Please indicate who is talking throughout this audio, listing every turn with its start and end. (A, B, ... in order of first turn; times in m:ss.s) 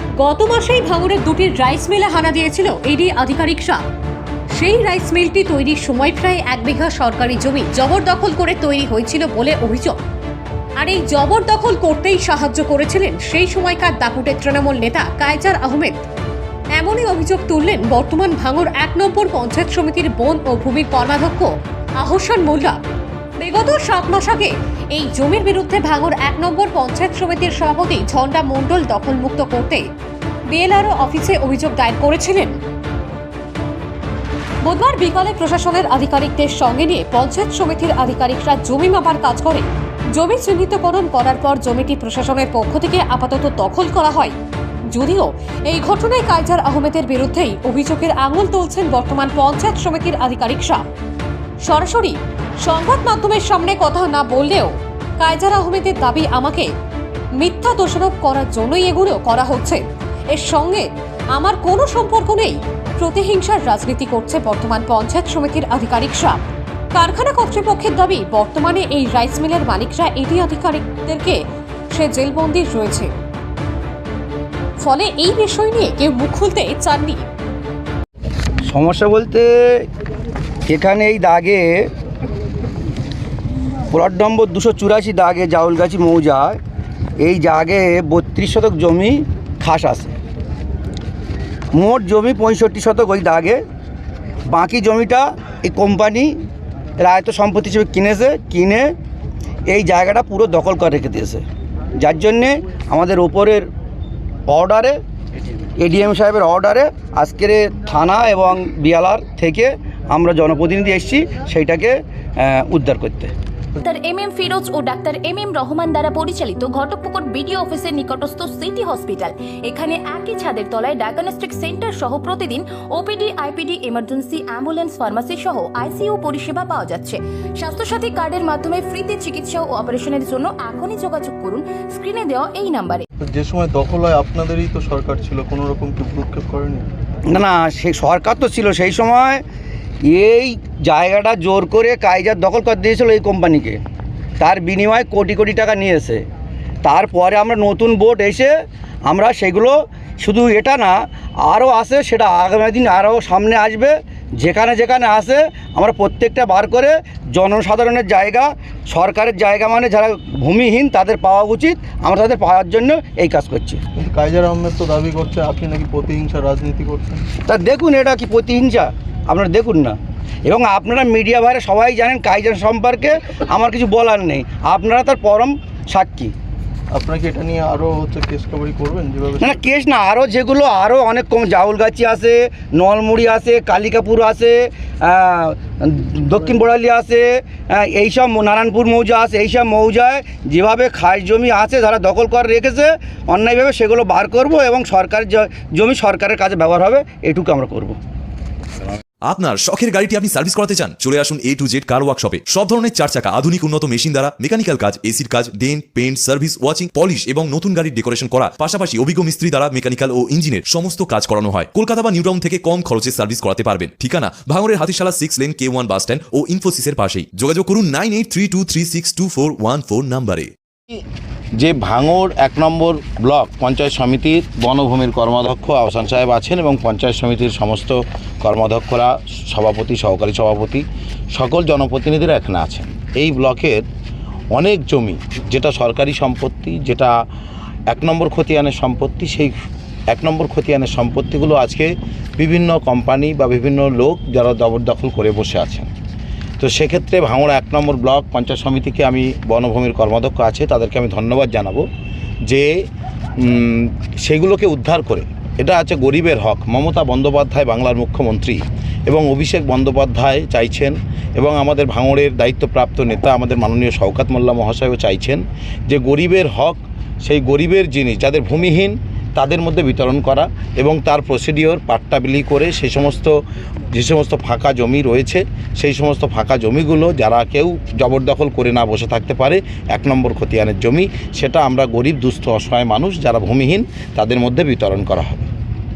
0:00.2-0:03.8 A
0:04.6-0:10.0 A
0:10.8-0:16.0 A
0:16.8-0:21.5 A
0:22.0-0:22.8 A
0:23.4-0:29.8 A
0:30.5-0:32.6 A
0:34.6-0:44.3 A
0:44.9-0:50.8 A
0:51.6-0:56.7 A
0:57.4-0:59.8 A
1:00.3-1:06.4 A
1:06.9-1:11.4 A
1:11.9-1:13.1 A
1:14.8-1:17.2 A
1:18.7-1:19.8 B
1:20.7-1:21.8 B
1:23.9-1:26.6 B
1:27.2-1:30.1 B
1:31.7-1:33.6 B
1:34.5-1:36.3 B
1:37.0-1:38.9 B
1:39.7-1:41.4 B
1:42.0-1:43.6 B
1:44.5-1:45.0 B
1:45.8-1:53.3 B
1:53.8-2:13.0 C
2:13.2-2:16.9 D
2:17.3-2:19.4 B
2:20.1-2:23.8 B
2:24.4-2:26.2 B
2:26.8-2:28.5 B
2:29.0-2:43.8 B
2:43.9-2:47.3 D
2:47.5-2:56.3 B
2:56.9-2:59.6 D
2:59.4-3:18.0 B
3:19.2-3:40.5 E
3:41.6-3:53.8 F
3:54.5-3:57.1 F
3:57.9-3:59.5 F
4:00.1-4:05.9 F
4:06.6-4:11.8 F
4:12.4-4:12.7 F
4:13.4-4:33.4 F
4:33.9-4:45.5 F